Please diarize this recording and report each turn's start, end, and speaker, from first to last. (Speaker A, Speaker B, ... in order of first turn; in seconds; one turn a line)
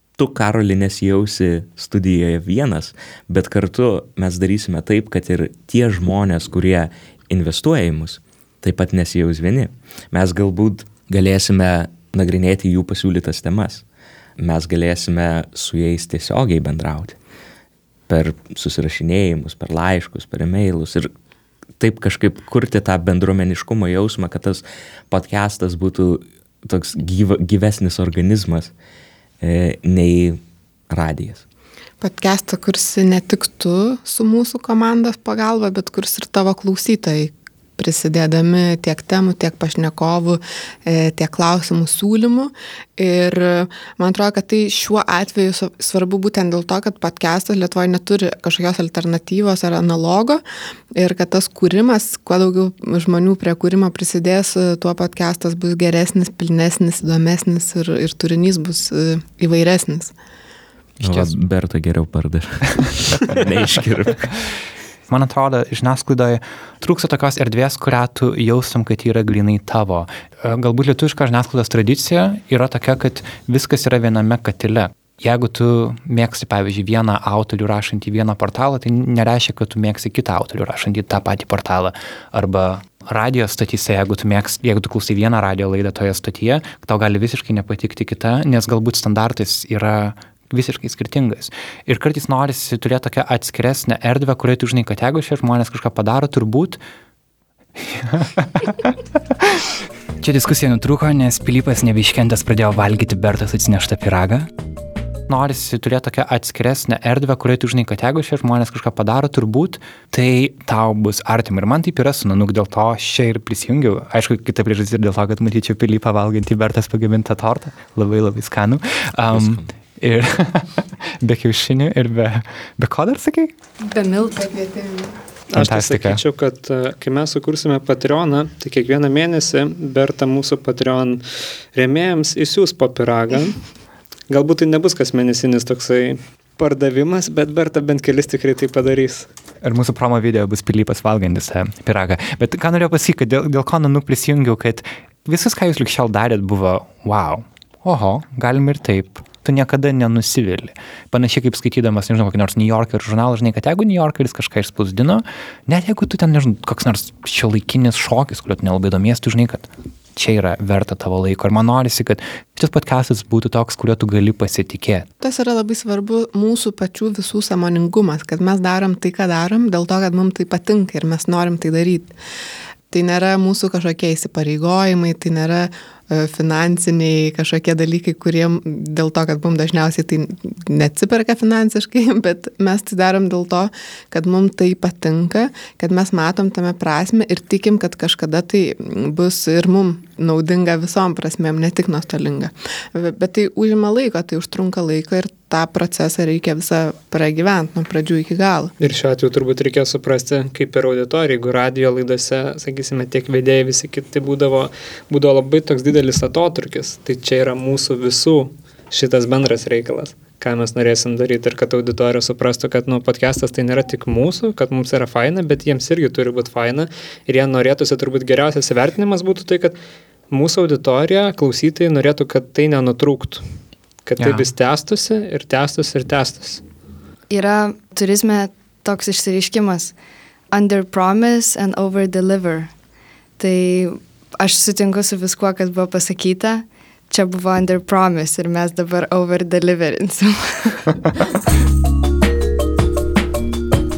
Speaker A: 0.2-13.8
Speaker A: 14.4-17.2
Speaker A: 18.1-21.1
Speaker A: 21.8-28.7
Speaker A: 29.4-31.4
Speaker B: 32.0-50.4
Speaker B: 50.9-60.1
Speaker C: 61.0-61.3
Speaker A: 61.0-64.3
Speaker C: 65.1-96.8
Speaker C: 97.8-99.6
Speaker C: 100.2-104.5
Speaker C: 105.3-123.5
Speaker A: 119.3-119.6
Speaker D: 123.9-124.7
Speaker B: 124.5-125.0
Speaker E: 125.5-133.6
Speaker C: 125.5-126.2
Speaker E: 134.3-139.3
Speaker C: 139.6-165.1
Speaker B: 165.2-172.1
Speaker B: 172.9-198.7
Speaker E: 198.8-219.8
Speaker E: 220.3-223.4
Speaker E: 224.1-226.6
Speaker C: 224.2-224.5
Speaker D: 227.3-229.9
Speaker D: 230.5-232.7
Speaker D: 233.4-240.8